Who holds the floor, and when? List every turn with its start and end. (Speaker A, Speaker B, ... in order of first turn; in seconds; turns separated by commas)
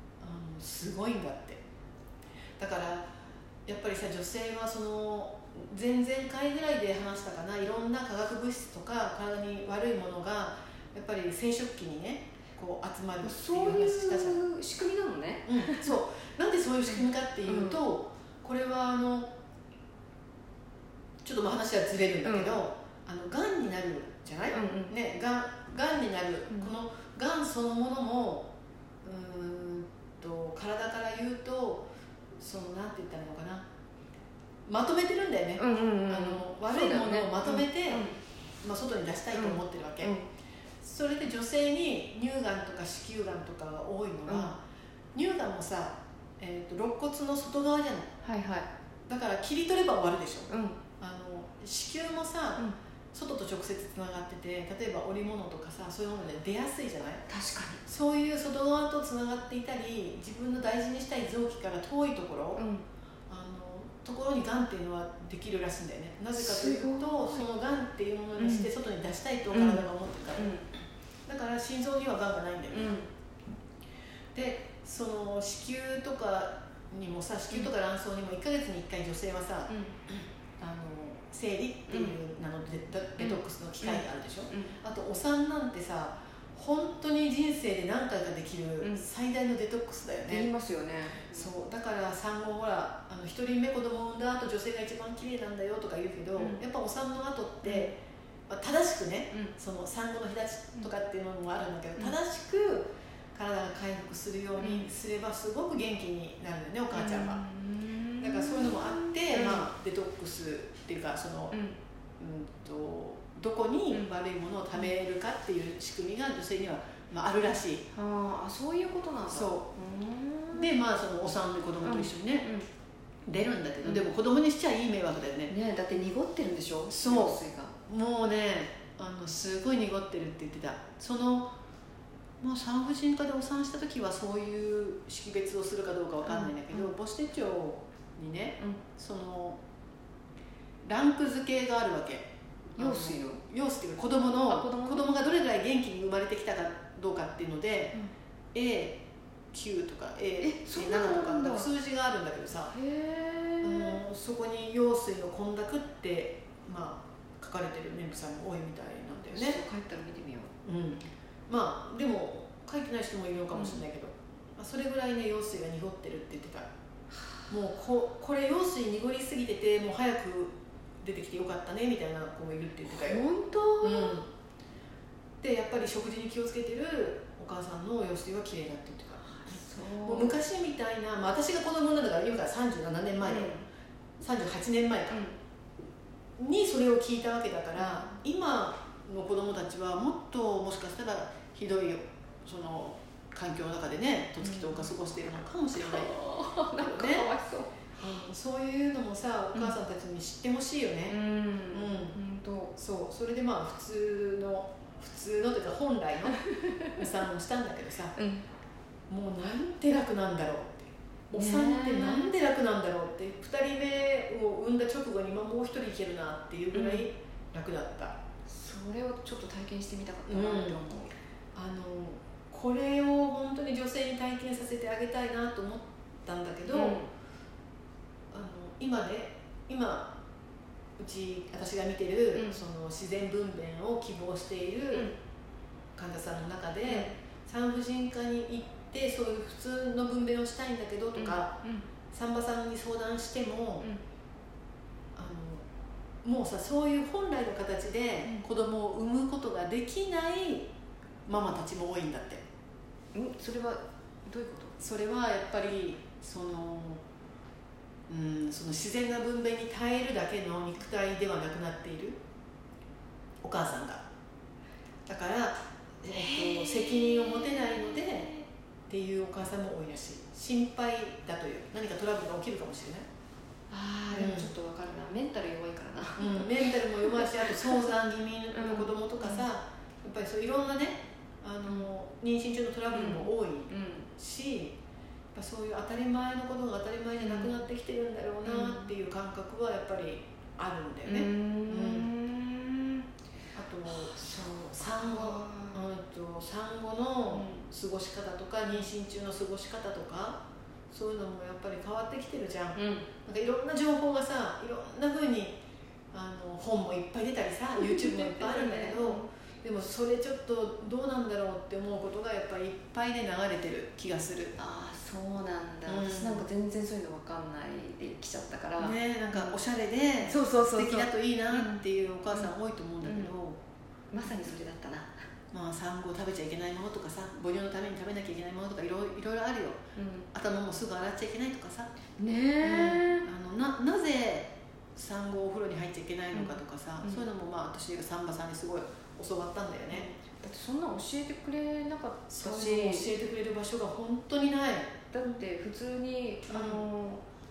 Speaker A: 0.2-1.6, Speaker A: 2.6-3.1, Speaker A: 3.7-14.4, Speaker B: 13.2-15.9, Speaker A: 15.5-19.3, Speaker B: 17.5-17.8, Speaker A: 21.2-28.5, Speaker B: 22.2-22.6, Speaker B: 24.5-24.9, Speaker A: 29.0-31.9, Speaker A: 32.4-33.6, Speaker A: 34.7-38.1, Speaker B: 35.6-38.2, Speaker A: 38.6-40.1, Speaker B: 39.3-40.3, Speaker A: 40.8-44.6, Speaker B: 44.3-44.5, Speaker A: 45.1-48.1, Speaker B: 48.2-48.7, Speaker A: 49.1-57.2, Speaker B: 50.5-50.8, Speaker B: 57.3-57.8, Speaker A: 57.9-62.6, Speaker B: 62.6-62.8, Speaker A: 63.3-70.6, Speaker B: 66.4-67.3, Speaker B: 68.4-68.7, Speaker B: 69.5-70.7, Speaker A: 71.3-73.0, Speaker B: 72.7-73.1, Speaker A: 74.3-79.7, Speaker B: 79.7-80.0, Speaker A: 80.6-90.5, Speaker B: 81.9-82.2, Speaker B: 83.2-84.8, Speaker B: 90.3-91.5, Speaker A: 91.3-97.9, Speaker B: 96.4-96.6, Speaker B: 97.6-97.9, Speaker A: 98.5-107.4, Speaker B: 104.6-104.9, Speaker B: 106.9-109.7, Speaker A: 108.2-111.6, Speaker A: 112.2-117.8, Speaker B: 117.9-120.7, Speaker A: 119.3-119.7, Speaker A: 120.5-122.5, Speaker B: 121.8-122.7, Speaker A: 123.3-125.5, Speaker B: 123.8-124.1, Speaker B: 125.5-127.7, Speaker A: 126.9-131.5, Speaker A: 132.4-139.6, Speaker B: 136.2-136.9, Speaker A: 140.9-148.0, Speaker B: 142.8-143.4, Speaker B: 144.5-145.1, Speaker A: 148.5-149.0, Speaker A: 149.5-152.7, Speaker B: 150.4-151.7, Speaker B: 152.7-154.0, Speaker A: 153.6-159.6, Speaker B: 159.3-160.5, Speaker A: 160.6-166.7, Speaker B: 163.5-163.8, Speaker A: 167.5-173.3, Speaker B: 172.9-174.2, Speaker A: 173.8-174.3, Speaker A: 175.4-183.5, Speaker B: 179.2-180.4, Speaker B: 183.2-183.6, Speaker A: 184.2-185.2, Speaker B: 185.1-185.4, Speaker A: 186.4-196.1, Speaker B: 187.8-188.1, Speaker B: 194.4-194.9, Speaker B: 195.8-197.7, Speaker A: 196.8-197.3, Speaker A: 198.0-201.2, Speaker B: 201.1-202.7, Speaker A: 201.7-202.2, Speaker A: 202.8-206.4, Speaker A: 206.9-208.2, Speaker B: 208.2-208.4, Speaker A: 209.1-218.2, Speaker B: 211.3-212.3, Speaker B: 216.7-217.1, Speaker B: 218.5-221.1, Speaker A: 220.3-220.8, Speaker A: 221.6-227.0, Speaker B: 226.7-227.1, Speaker A: 228.3-230.1, Speaker A: 231.0-235.1, Speaker B: 232.3-232.6, Speaker A: 236.0-241.5, Speaker B: 236.9-237.1, Speaker B: 241.2-241.8, Speaker A: 242.1-243.9, Speaker A: 245.2-245.6, Speaker A: 246.2-250.7, Speaker A: 251.3-252.4, Speaker B: 253.2-254.8, Speaker A: 254.8-257.0, Speaker A: 258.1-262.2, Speaker A: 263.4-264.0, Speaker A: 265.1-268.3, Speaker B: 266.1-268.5, Speaker A: 268.9-273.1, Speaker B: 273.7-277.9, Speaker A: 274.1-274.5, Speaker A: 276.2-284.8, Speaker B: 278.5-279.5, Speaker B: 282.9-284.1, Speaker A: 285.3-292.1, Speaker B: 287.2-287.5, Speaker B: 288.4-288.9, Speaker B: 291.1-293.1, Speaker A: 293.5-294.2, Speaker B: 293.9-295.8, Speaker A: 294.7-305.6, Speaker B: 297.3-297.6, Speaker B: 302.8-303.1, Speaker A: 306.1-314.6, Speaker B: 307.8-309.3, Speaker B: 314.6-319.6, Speaker A: 315.9-316.5, Speaker A: 318.8-323.6, Speaker B: 320.2-323.3, Speaker B: 324.1-325.1, Speaker A: 325.5-329.8, Speaker B: 330.0-330.3, Speaker A: 330.3-331.9, Speaker B: 332.2-333.3, Speaker A: 332.6-340.1, Speaker B: 336.3-337.2, Speaker B: 339.9-343.1, Speaker A: 342.3-345.4, Speaker B: 345.1-347.2, Speaker A: 346.5-346.8